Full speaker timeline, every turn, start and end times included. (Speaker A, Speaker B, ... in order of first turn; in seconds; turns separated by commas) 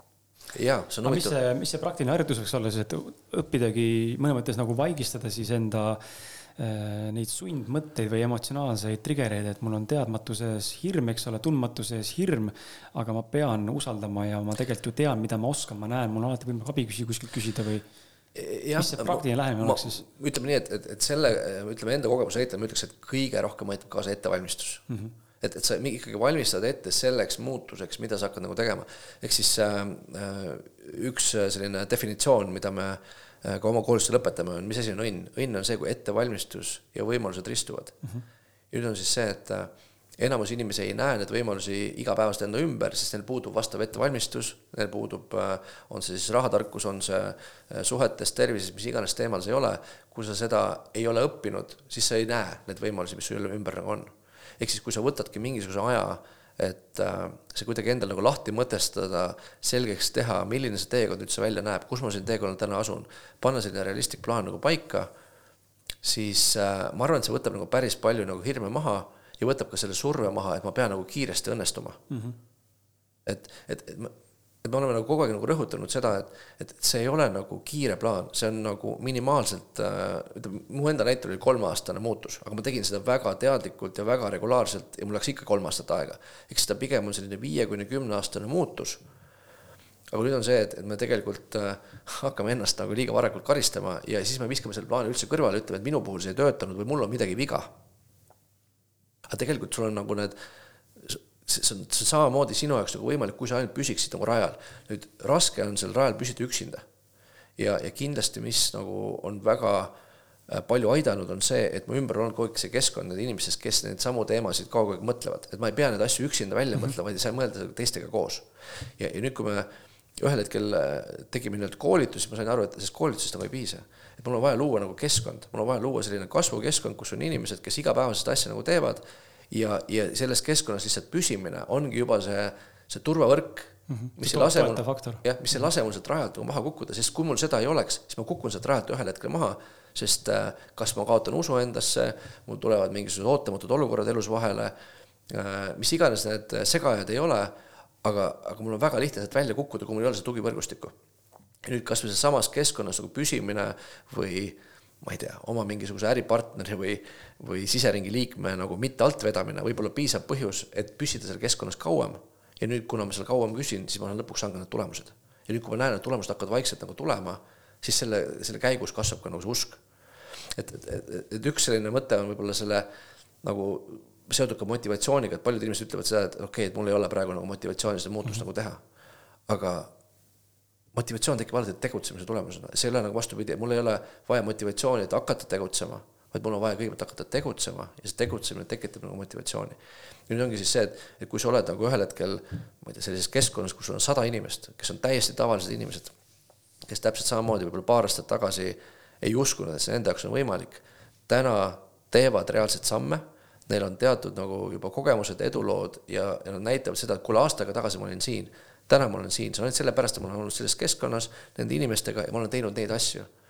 Speaker A: 0.5-1.3, Speaker B: 1.0-17.8, Speaker A: 18.3-24.8, Speaker B: 18.8-20.0, Speaker B: 24.9-25.1, Speaker A: 25.4-38.0, Speaker A: 38.7-65.1, Speaker A: 66.0-72.0, Speaker B: 72.1-72.4, Speaker A: 73.2-74.1, Speaker A: 74.6-89.0, Speaker A: 90.1-97.7, Speaker A: 99.3-100.3, Speaker A: 101.0-106.8, Speaker A: 107.6-109.9, Speaker A: 110.5-118.5, Speaker A: 119.0-144.7, Speaker B: 133.9-135.2, Speaker A: 145.3-150.9, Speaker A: 151.6-169.8, Speaker A: 170.5-172.8, Speaker A: 173.4-178.8, Speaker A: 179.5-179.9, Speaker A: 180.9-189.8, Speaker A: 190.3-196.1, Speaker A: 196.9-213.3